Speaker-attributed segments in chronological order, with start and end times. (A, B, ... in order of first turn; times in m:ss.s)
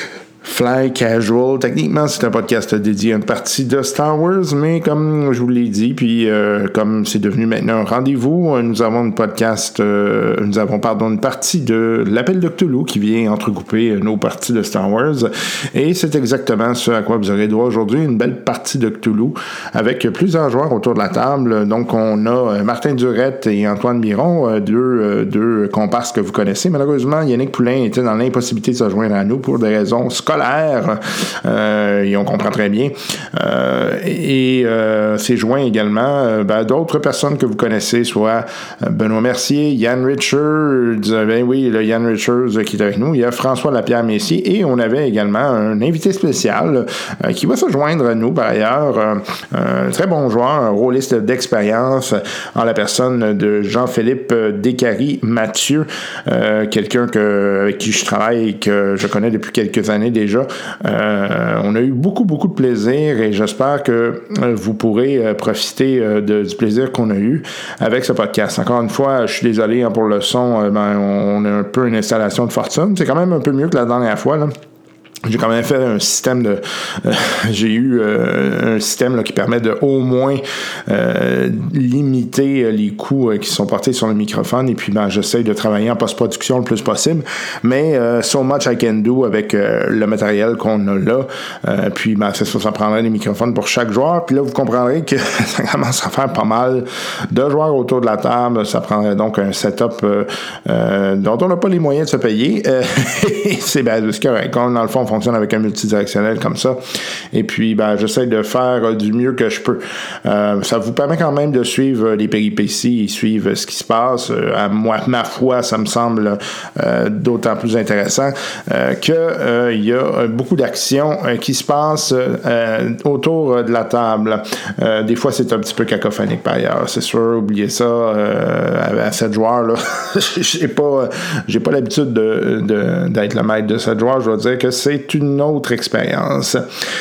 0:00.4-1:14.5 A
1:15.2-2:16.7 A